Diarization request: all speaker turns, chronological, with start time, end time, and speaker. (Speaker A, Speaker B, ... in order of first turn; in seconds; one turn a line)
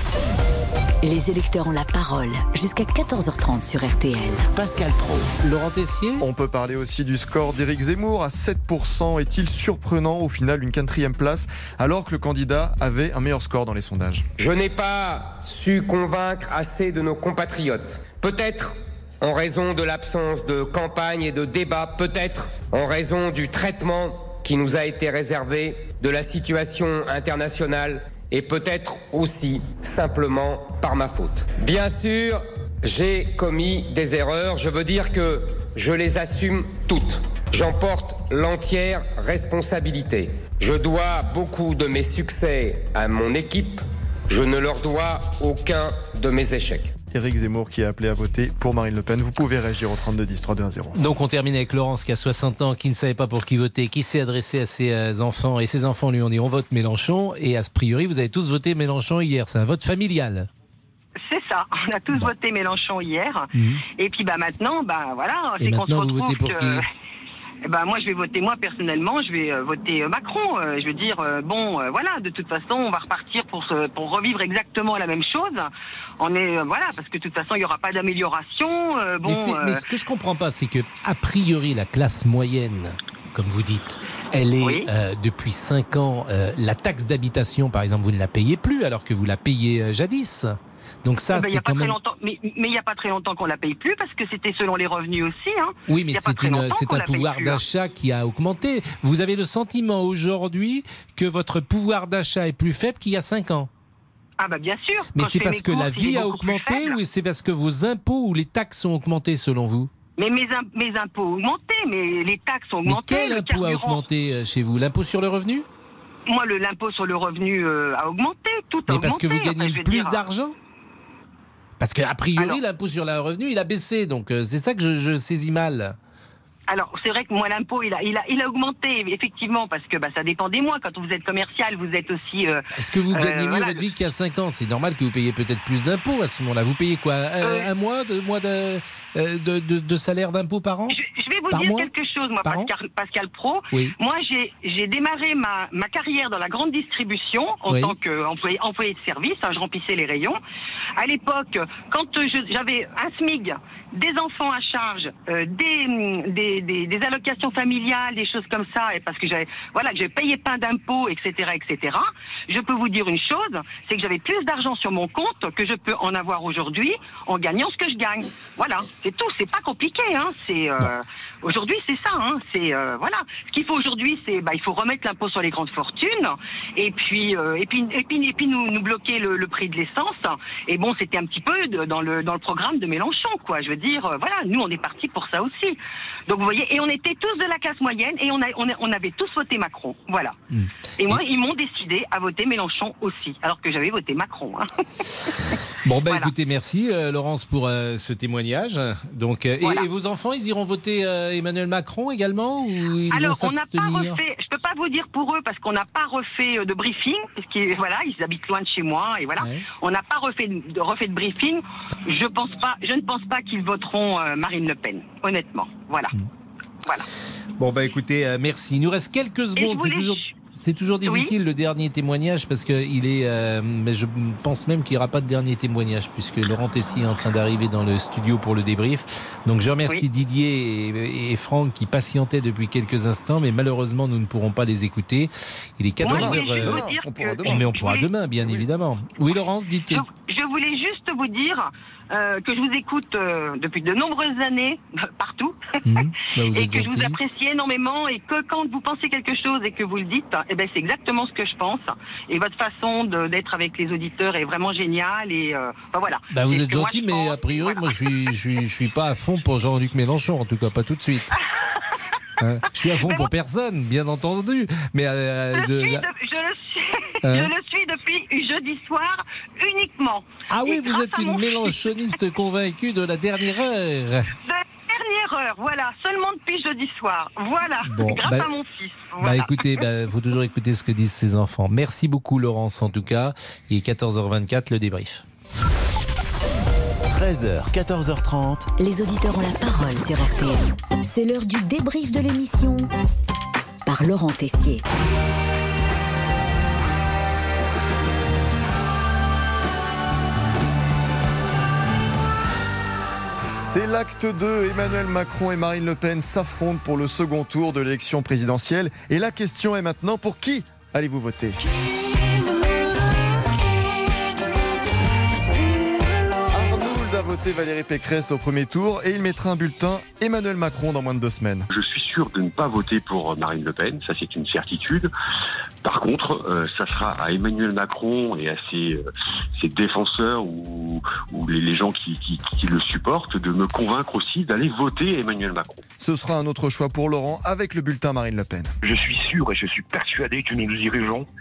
Speaker A: 1.0-4.5
Speaker B: 4.5-5.3
Speaker C: 5.4-6.2
Speaker D: 6.2-14.3
Speaker E: 14.4-46.9
Speaker D: 47.1-51.0
Speaker C: 50.9-60.5
Speaker F: 61.2-66.8
Speaker C: 63.5-63.8
Speaker C: 65.6-66.8
Speaker F: 67.7-75.7
Speaker F: 76.2-79.8
Speaker C: 79.2-91.9
Speaker F: 84.6-84.9
Speaker F: 91.3-97.6
Speaker C: 95.9-103.7
Speaker F: 104.4-107.0
Speaker C: 105.2-109.9
Speaker F: 110.2-114.0
Speaker C: 112.8-115.7
Speaker F: 116.3-120.2
Speaker C: 118.9-120.5
Speaker C: 121.8-126.0
Speaker F: 126.7-133.8
Speaker C: 132.7-140.9
Speaker F: 137.4-137.7
Speaker F: 140.9-150.4
Speaker C: 141.5-141.9
Speaker C: 142.4-142.7
Speaker C: 147.7-147.9
Speaker F: 151.0-185.8
Speaker F: 186.3-190.3
Speaker C: 190.5-191.2
Speaker F: 191.0-194.7
Speaker C: 195.8-204.2
Speaker F: 203.1-216.1
Speaker C: 217.6-236.9
Speaker F: 219.6-220.3
Speaker F: 221.0-221.3
Speaker F: 236.0-238.0
Speaker D: 236.0-238.1
Speaker C: 237.4-240.0
Speaker F: 239.9-245.6
Speaker C: 245.8-247.1
Speaker F: 246.5-257.8
Speaker C: 256.3-261.3
Speaker C: 262.4-266.1
Speaker F: 265.5-271.8
Speaker C: 267.2-267.5
Speaker C: 270.5-274.3
Speaker F: 274.4-279.8
Speaker C: 277.9-278.5
Speaker C: 279.2-285.2
Speaker B: 287.1-288.7
Speaker A: 288.8-292.9
Speaker A: 293.9-294.8
Speaker D: 303.6-311.6
Speaker D: 316.5-321.7
Speaker G: 321.7-325.1
Speaker G: 325.8-335.8
Speaker D: 336.0-338.7
Speaker H: 338.8-341.3